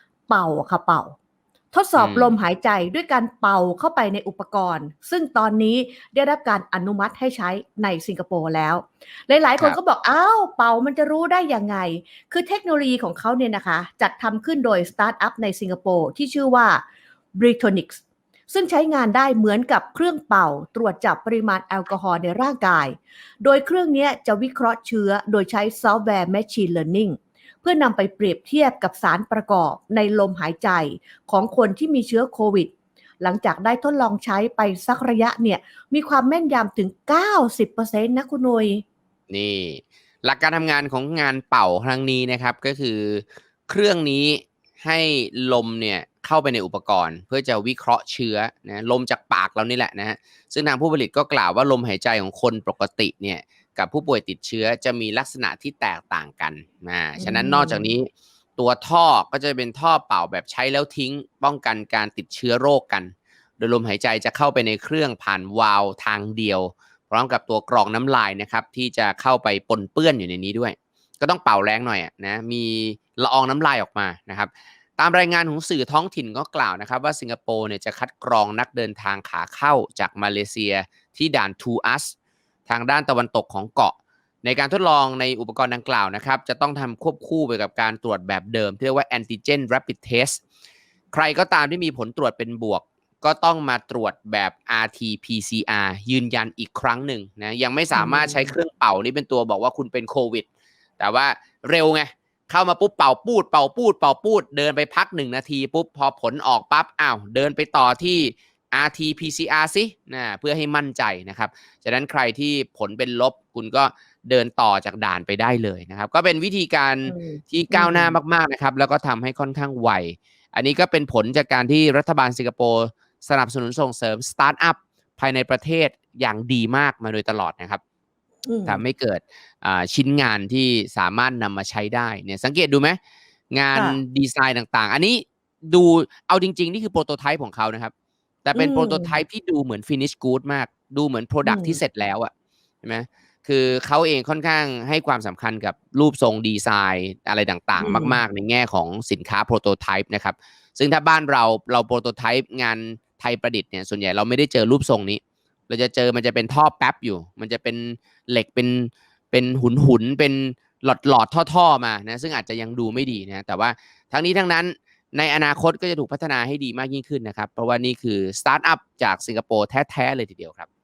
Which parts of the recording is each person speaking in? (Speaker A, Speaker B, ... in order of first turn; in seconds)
Speaker A: 0.3-1.2, 1.7-16.8, 17.4-38.8, 57.2-57.9, 97.9-98.5, 117.1-118.2, 128.4-128.8, 138.6-139.2, 141.4-141.8, 147.8-148.2
Speaker B: 2.0-2.3, 39.3-82.2, 82.7-90.4, 91.1-100.5, 101.0-127.8, 128.7-133.0, 133.5-137.9, 138.5-142.3, 142.8-170.7